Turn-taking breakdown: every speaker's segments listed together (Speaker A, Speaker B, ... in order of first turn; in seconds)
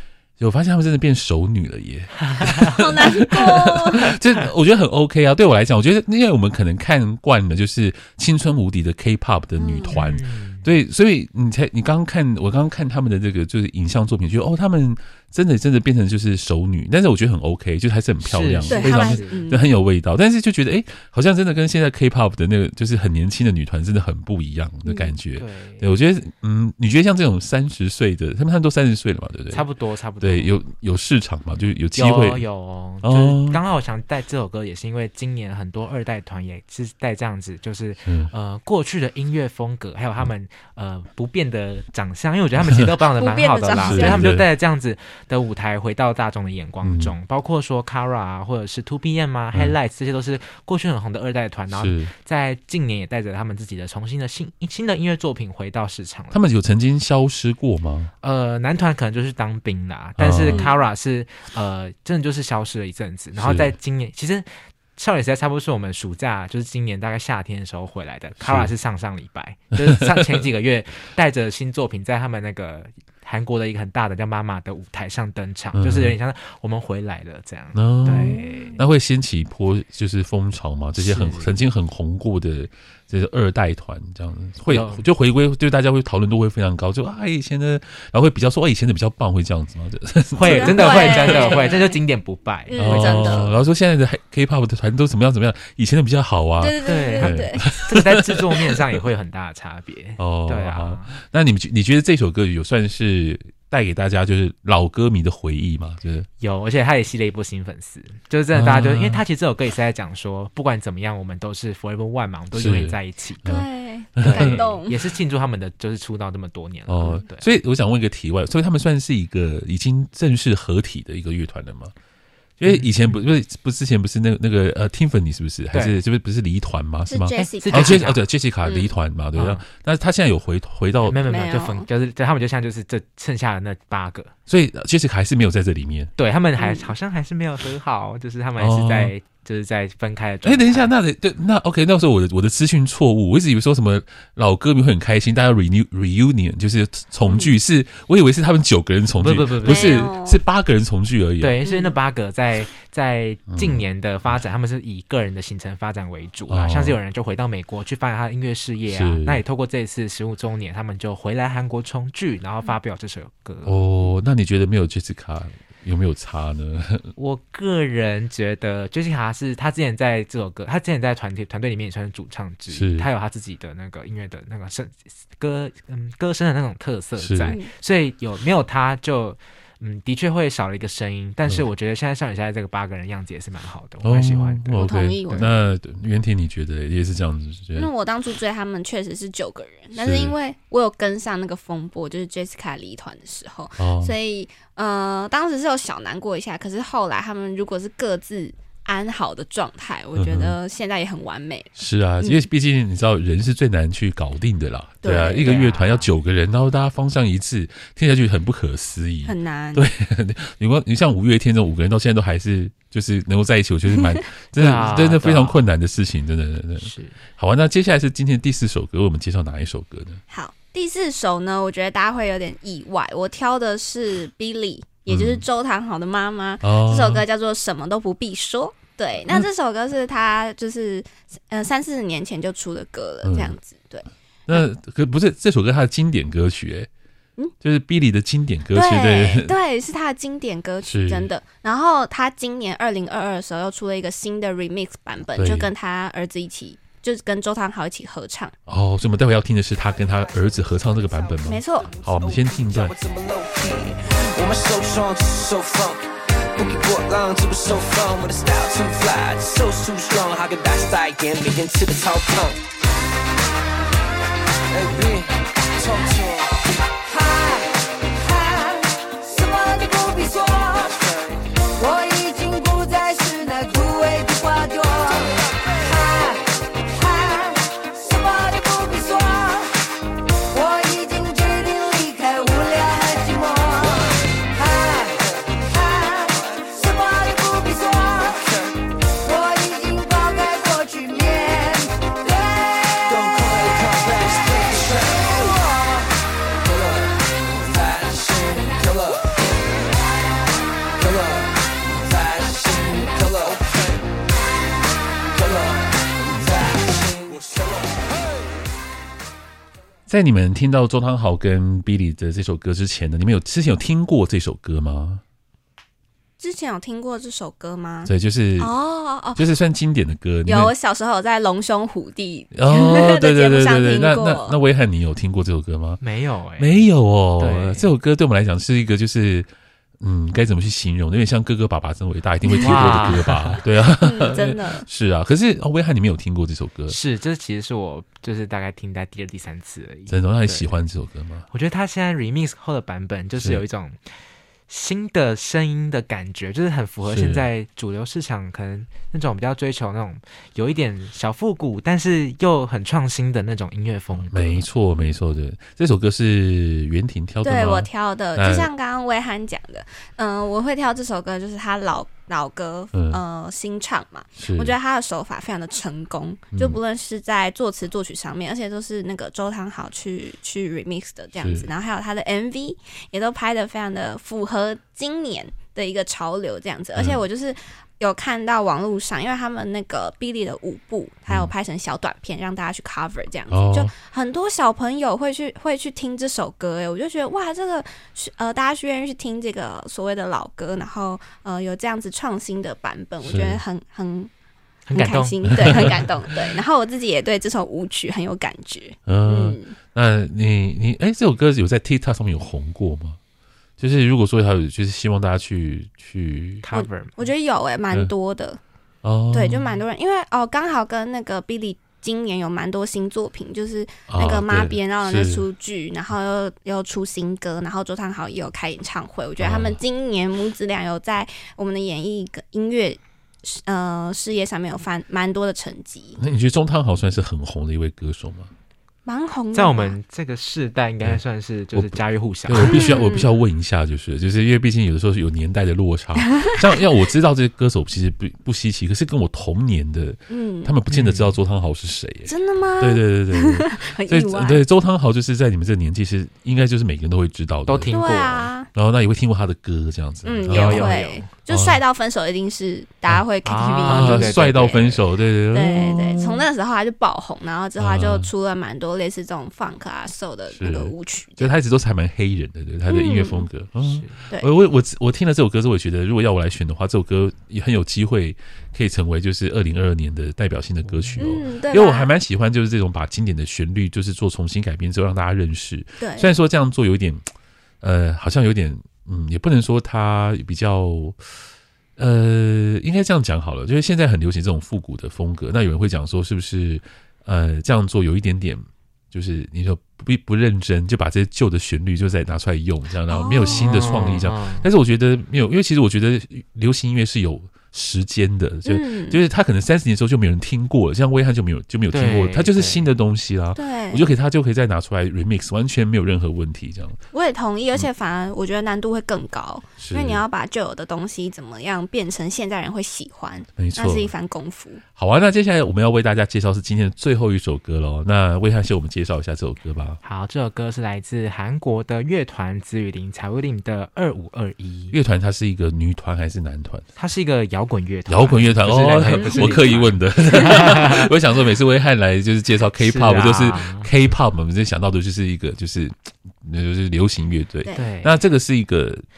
Speaker A: 0.4-29.7, 30.2-32.5, 33.0-33.6, 38.1-38.3, 43.8-44.5, 46.8-47.1, 51.7-52.1, 56.3-58.1, 60.2-60.6, 63.4-63.7, 68.4-68.7, 75.8-76.2, 77.8-91.8, 92.8-98.8, 100.2-106.3, 108.5-109.2, 112.5-113.7, 114.2-114.6, 116.9-121.9, 122.6-131.2, 134.5-136.1, 138.6-139.1, 140.4-151.6, 153.5-153.8, 156.5-157.0, 158.9-159.4, 163.7-167.1, 172.7-173.1, 177.2-177.5, 184.0-187.9, 189.9-190.3, 193.8-194.1, 200.2-200.6, 201.8-220.2, 225.1-225.4, 226.6-227.2, 233.2-233.6, 234.5-236.9, 237.6-239.5, 240.9-241.3, 245.4-245.7, 248.7-252.9, 310.1-315.2, 318.1-318.7, 319.4-320.7, 322.5-326.0, 326.6-329.5, 330.0-337.0, 340.1-341.5, 347.1-347.5, 354.2-358.7, 362.9-363.2, 364.4-364.8, 366.5-366.8, 371.4-371.7, 377.0-377.2, 383.5-383.9, 393.2-393.6, 395.5-395.9, 399.1-403.2, 403.8-406.6, 409.0-409.8, 414.1-415.4, 419.4-419.8, 426.2-428.5, 431.7-448.2, 448.7-450.9, 451.5-451.8, 453.8-456.5, 457.8-458.3, 460.5-477.3, 477.8-481.2, 482.0-507.0, 509.8-510.2, 513.6-514.1, 515.0-520.0, 524.9-526.9, 528.1-539.0
Speaker B: 2.2-2.8, 9.9-10.7, 18.2-19.4, 25.4-25.9, 29.5-30.5, 31.9-56.4, 58.2-78.8, 81.0-81.6, 84.7-85.0, 90.3-93.6, 96.8-101.1, 106.4-113.5, 114.2-117.5, 122.6-123.2, 127.3-128.2, 129.3-129.6, 131.1-134.3, 136.2-140.9, 149.2-150.1, 151.4-163.8, 167.2-184.7, 205.4-206.1, 214.6-215.6, 216.8-217.2, 326.0-327.9, 332.6-333.6, 336.9-340.7, 341.5-344.0, 344.7-354.6, 394.9-396.0, 406.6-407.3, 429.5-432.9, 440.9-441.4, 447.7-448.5, 450.4-451.3, 453.4-454.9, 463.8-464.2, 470.8-471.5, 493.4-494.7, 501.9-502.9, 520.0-525.0, 527.0-531.1, 532.8-533.9, 537.8-538.2
Speaker C: 2.8-4.1, 9.6-10.0, 18.7-19.6, 24.9-25.1, 43.2-44.3, 60.5-60.7, 78.1-78.8, 90.4-92.0, 92.7-93.5, 96.6-97.6, 113.5-115.0, 127.1-128.0, 128.7-128.9, 131.3-131.9, 136.6-136.9, 147.3-147.5, 149.7-150.4, 151.7-151.9, 177.4-177.7, 184.8-185.5, 187.8-202.5, 205.0-205.5, 209.3-209.8, 213.9-214.2, 220.3-234.7, 238.7-248.5, 251.4-251.9, 316.4-319.4, 320.5-324.6, 332.4-332.9, 334.0-334.9, 357.4-394.3, 394.9-399.8, 406.7-408.6, 409.3-426.2, 429.1-430.0, 432.6-433.3, 440.3-440.7, 442.3-444.6, 447.9-448.7, 450.3-454.9, 455.5-461.5, 462.9-463.5, 471.2-472.1, 476.0-476.3, 493.1-494.0, 498.6-499.2, 503.6-504.1, 507.1-514.8, 529.2-529.5
Speaker D: 249.8-262.6, 264.7-266.6, 270.8-271.4, 275.2-275.6, 288.4-288.8, 293.1-295.5, 296.6-299.4, 301.0-304.1, 305.3-308.0
Speaker E: 267.1-270.9, 271.8-279.8, 280.5-288.5, 289.2-293.1, 295.2-296.1